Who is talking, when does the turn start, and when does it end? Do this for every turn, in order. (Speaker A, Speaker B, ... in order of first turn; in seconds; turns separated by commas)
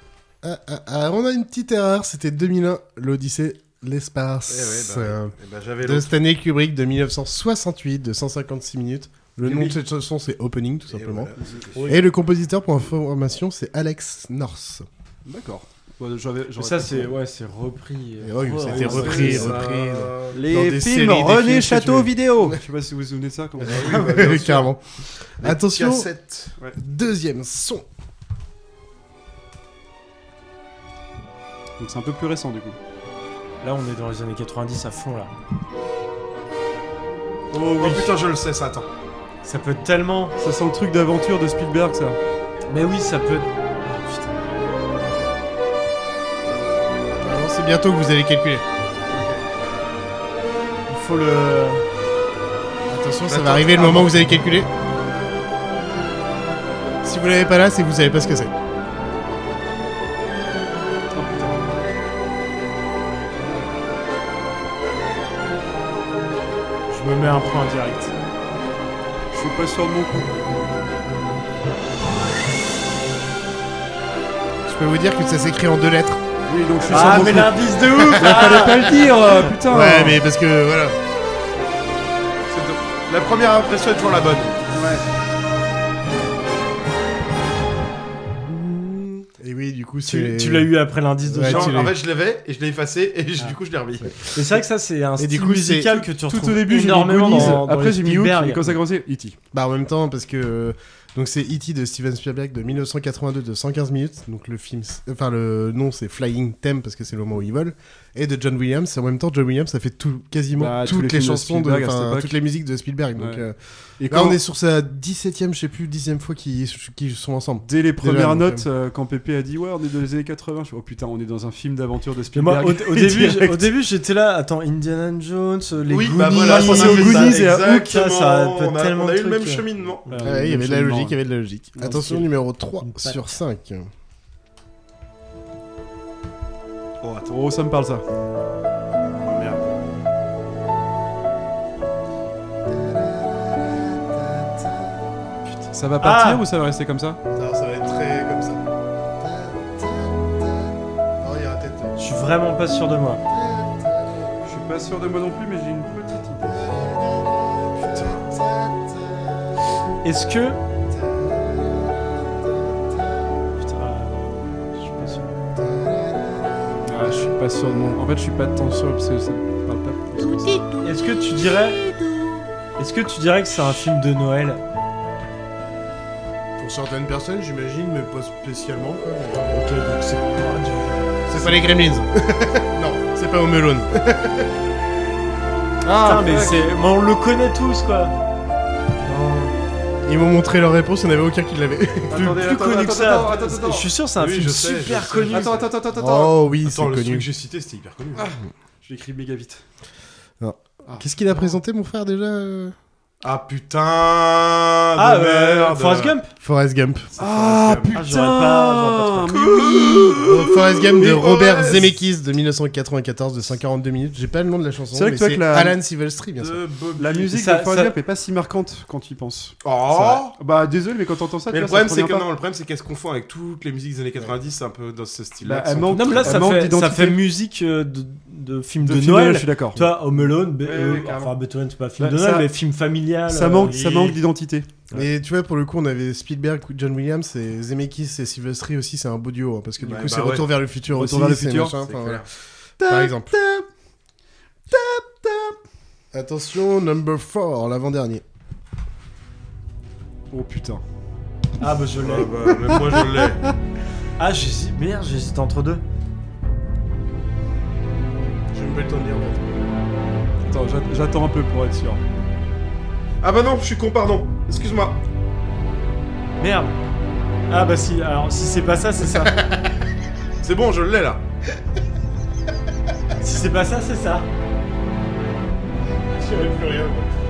Speaker A: 0.4-11.3, Speaker B: 4.5-6.2, Speaker C: 9.5-9.7, Speaker B: 10.9-11.9, Speaker C: 11.8-12.1, Speaker A: 11.8-14.8, Speaker D: 15.3-17.1, Speaker C: 16.6-19.5, Speaker A: 18.2-22.6, Speaker D: 18.7-19.5, Speaker B: 18.9-20.4, Speaker D: 20.3-24.4, Speaker A: 23.6-24.8, Speaker B: 23.6-24.7, Speaker A: 25.4-26.1, Speaker B: 25.4-26.5, Speaker A: 26.8-27.9, Speaker D: 31.8-32.8, Speaker C: 33.6-35.3, Speaker D: 37.5-38.1, Speaker B: 37.7-38.9, Speaker C: 39.4-40.4, Speaker D: 40.4-42.2, Speaker C: 42.7-44.4, Speaker A: 47.2-48.6, Speaker D: 49.1-49.4, Speaker C: 50.9-51.9, Speaker A: 52.9-54.7, Speaker B: 53.2-54.2, Speaker A: 57.0-58.5, Speaker D: 61.1-61.8, Speaker C: 66.9-68.1, Speaker D: 69.3-70.3, Speaker A: 74.7-76.2, Speaker D: 76.5-77.6, Speaker B: 76.8-77.5, Speaker C: 76.9-79.0, Speaker A: 77.9-78.9, Speaker D: 78.2-80.2, Speaker A: 79.7-81.0, Speaker B: 82.5-84.8, Speaker D: 84.7-85.0, Speaker A: 88.4-90.7, Speaker C: 90.0-91.8, Speaker A: 91.2-92.0, Speaker B: 91.4-94.2, Speaker C: 94.3-98.8, Speaker A: 95.2-96.0, Speaker D: 95.9-99.4, Speaker A: 99.5-118.7, Speaker D: 110.6-112.3, Speaker D: 113.2-113.4, Speaker D: 114.0-114.4, Speaker D: 117.6-123.7, Speaker C: 122.3-130.3, Speaker B: 125.9-130.1, Speaker A: 126.5-127.2, Speaker D: 126.6-127.3, Speaker D: 130.1-131.2, Speaker A: 130.2-133.9, Speaker D: 131.8-132.2, Speaker C: 132.8-133.2, Speaker B: 137.0-137.3, Speaker D: 137.3-138.0, Speaker B: 139.2-139.7, Speaker A: 142.7-145.0, Speaker D: 145.7-147.2, Speaker C: 146.0-146.4, Speaker A: 147.3-148.6, Speaker A: 149.2-152.0, Speaker C: 152.0-153.2, Speaker A: 153.3-154.3, Speaker D: 154.4-156.6, Speaker A: 156.5-159.6, Speaker C: 160.0-160.6, Speaker A: 160.9-163.0, Speaker C: 163.6-165.4, Speaker A: 165.6-167.3, Speaker D: 166.8-170.7, Speaker C: 170.8-171.8, Speaker C: 172.8-174.6, Speaker A: 176.6-179.5, Speaker C: 179.5-181.6, Speaker A: 181.3-184.5, Speaker D: 185.8-186.7, Speaker C: 185.9-188.1, Speaker A: 190.1-192.4, Speaker D: 192.1-193.9, Speaker C: 192.2-195.6, Speaker B: 194.2-195.7, Speaker D: 195.3-196.4, Speaker A: 195.9-197.3, Speaker B: 196.6-198.3, Speaker D: 198.2-199.6, Speaker A: 200.4-202.8, Speaker B: 203.2-206.2, Speaker C: 205.0-206.3, Speaker A: 206.4-207.1, Speaker B: 207.2-208.0, Speaker D: 207.2-210.2, Speaker C: 207.9-209.3, Speaker B: 209.3-212.0, Speaker A: 210.2-216.6, Speaker D: 214.9-215.8, Speaker B: 216.4-217.3, Speaker D: 217.0-222.3, Speaker C: 217.3-217.9, Speaker B: 219.6-220.4, Speaker B: 221.5-226.5, Speaker D: 225.4-227.2, Speaker C: 225.9-234.2, Speaker D: 228.8-229.8, Speaker B: 230.6-231.3, Speaker D: 232.0-232.5, Speaker D: 233.3-234.8, Speaker A: 234.9-242.3, Speaker B: 239.8-240.4, Speaker D: 240.9-241.8, Speaker B: 241.9-242.2, Speaker A: 242.8-243.4, Speaker D: 242.8-243.1, Speaker A: 246.1-248.2, Speaker D: 250.3-250.8, Speaker C: 251.6-252.3, Speaker B: 252.0-253.4, Speaker C: 254.2-255.8, Speaker A: 258.5-259.7, Speaker D: 260.5-262.0, Speaker B: 263.2-265.0, Speaker C: 266.4-266.8, Speaker C: 267.5-269.4, Speaker B: 270.4-271.2, Speaker C: 273.2-274.3, Speaker A: 276.1-277.1